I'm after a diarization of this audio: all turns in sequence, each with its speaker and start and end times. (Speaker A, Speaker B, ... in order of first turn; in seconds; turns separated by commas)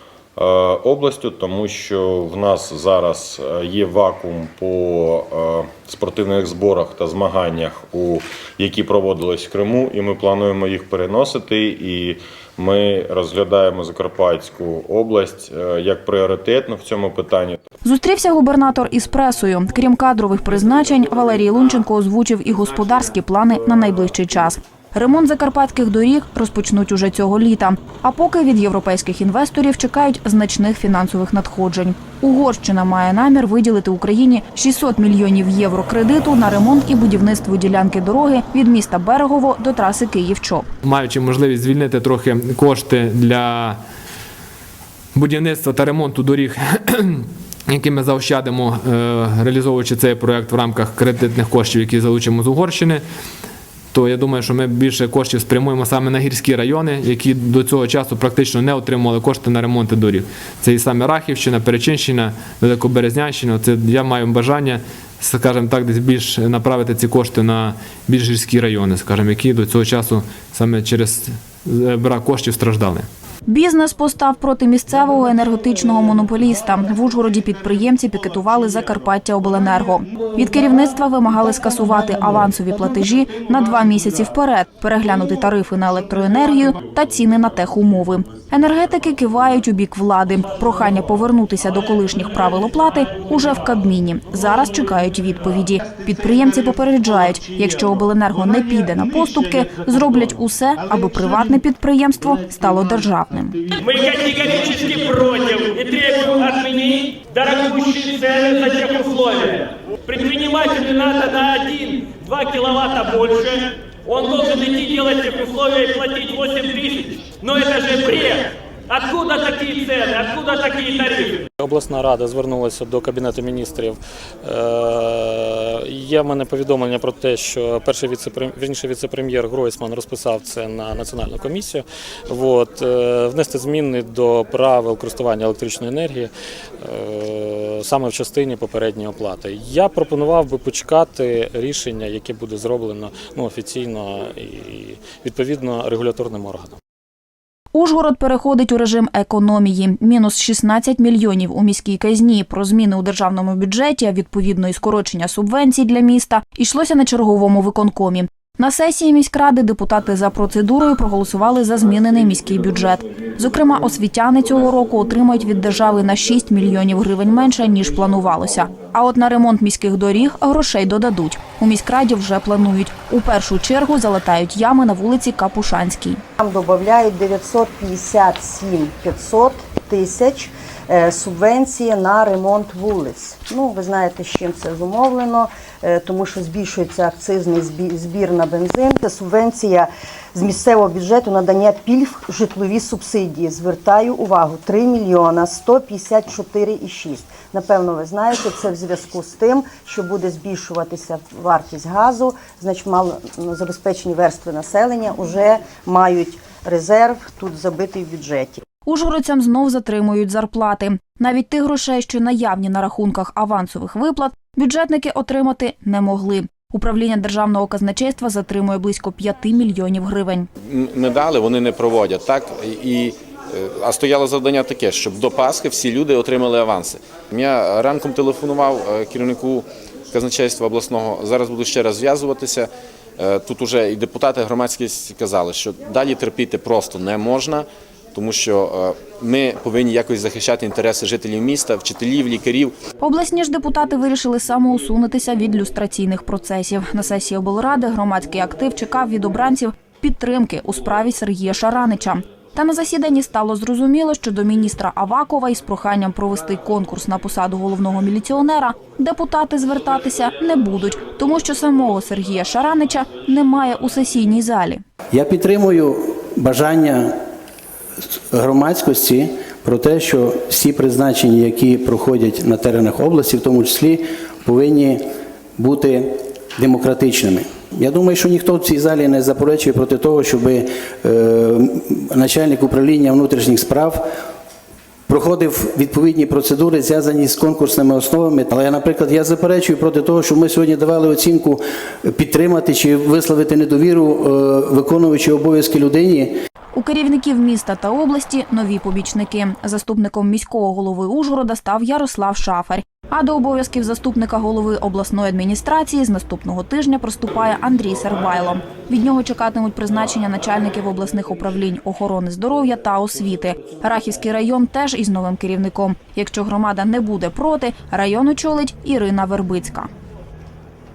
Speaker A: 0.4-17.6, Speaker B: 17.8-40.7, Speaker C: 40.8-43.8, Speaker C: 45.1-53.0, Speaker C: 53.9-73.1, Speaker B: 73.5-103.6, Speaker D: 103.8-121.5, Speaker E: 121.6-146.8, Speaker B: 147.7-176.2, Speaker F: 176.4-208.6, Speaker B: 208.9-220.5, Speaker A: 220.6-242.8, Speaker B: 243.0-264.8, Speaker G: 265.1-267.2, Speaker G: 268.3-284.1, Speaker G: 285.1-296.4, Speaker B: 296.8-319.9